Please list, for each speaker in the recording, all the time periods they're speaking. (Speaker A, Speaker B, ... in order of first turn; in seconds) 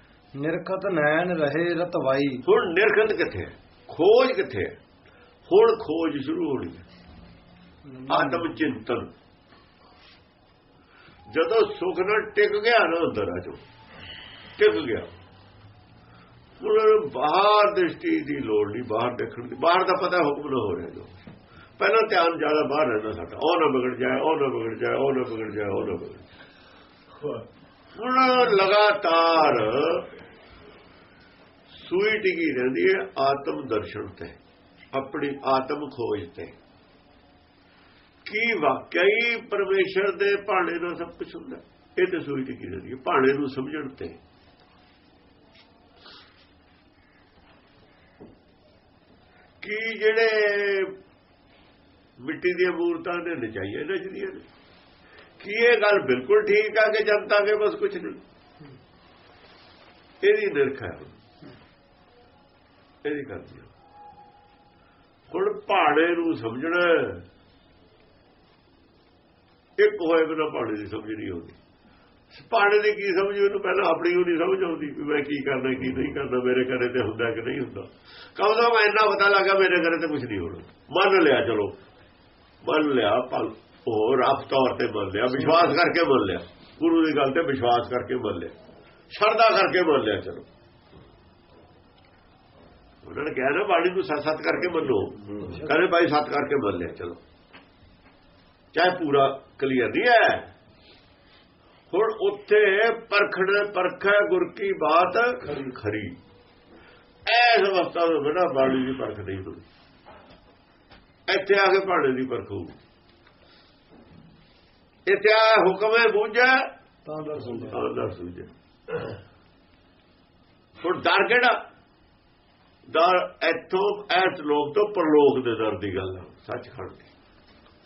Speaker A: 0.4-2.4, 7.9-8.5, 117.1-117.8
Speaker B: 2.5-4.8, 5.5-6.8, 8.1-9.1, 11.3-13.6, 14.6-15.1, 16.6-26.3, 27.9-30.1, 31.8-34.4, 34.9-36.5, 38.2-44.2, 49.6-51.0, 52.2-54.4, 55.4-58.2, 60.2-61.1, 63.0-63.7, 65.3-67.2, 69.8-71.5, 72.3-81.7, 82.6-88.5, 89.1-90.5, 93.0-97.2, 98.7-100.5, 101.9-106.2, 107.3-109.6, 111.3-112.8, 115.1-116.7, 117.5-119.2, 120.8-121.6, 122.9-127.1